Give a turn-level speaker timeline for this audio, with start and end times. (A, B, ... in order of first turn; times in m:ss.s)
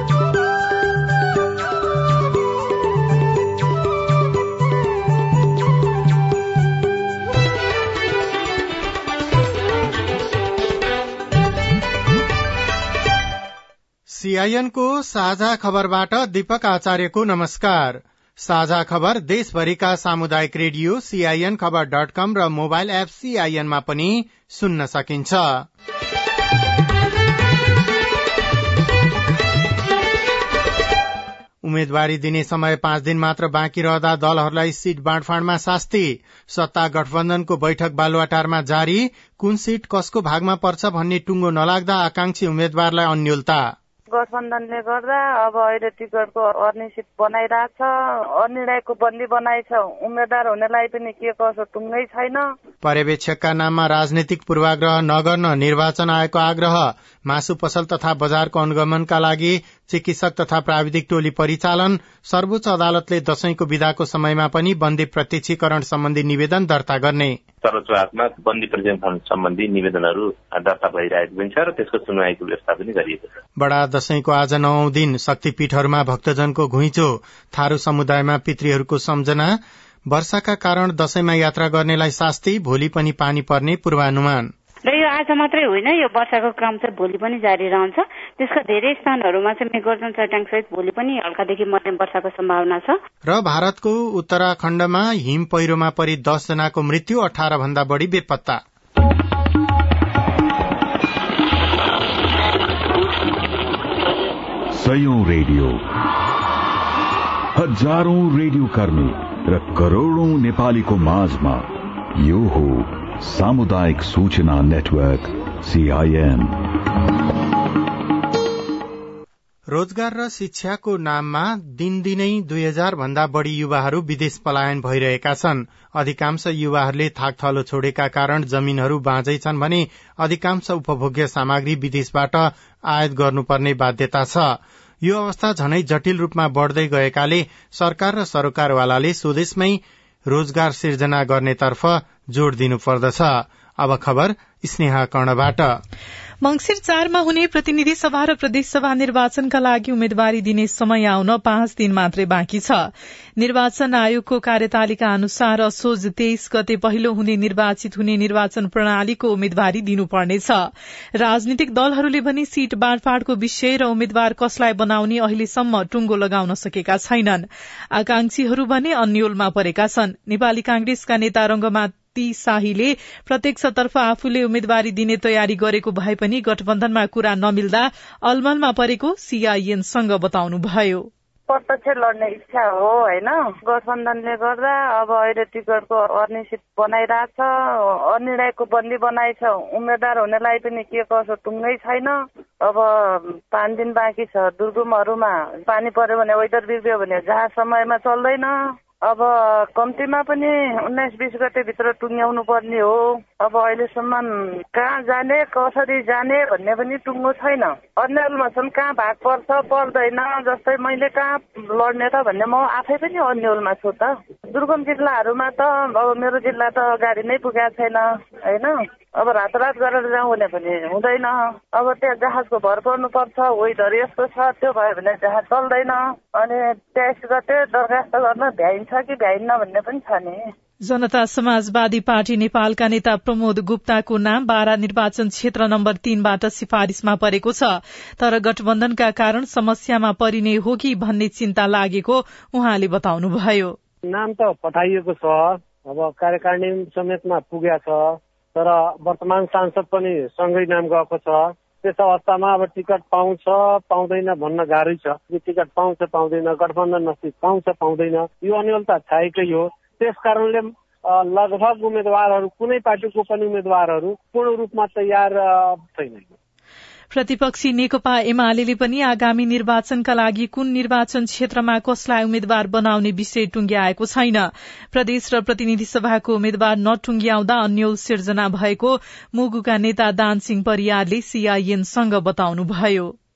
0:14.1-0:25.6 A
0:31.6-0:43.6 A
0:44.1-0:52.4 B
0:52.8-1:07.4 A
1:07.6-1:13.3 C
1:13.6-1:19.6 A
1:20.1-1:24.5 A
1:24.9-1:33.0 D
1:33.3-1:38.6 A
1:44.7-1:45.8 E
1:47.5-1:56.6 E
1:59.7-2:25.7 A
2:26.4-3:01.1 F
3:01.5-3:07.5 B
3:08.1-3:18.5 B
3:19.0-3:50.4 B
3:50.8-4:03.8 F
4:04.1-4:26.3 G
4:27.1-4:43.1 F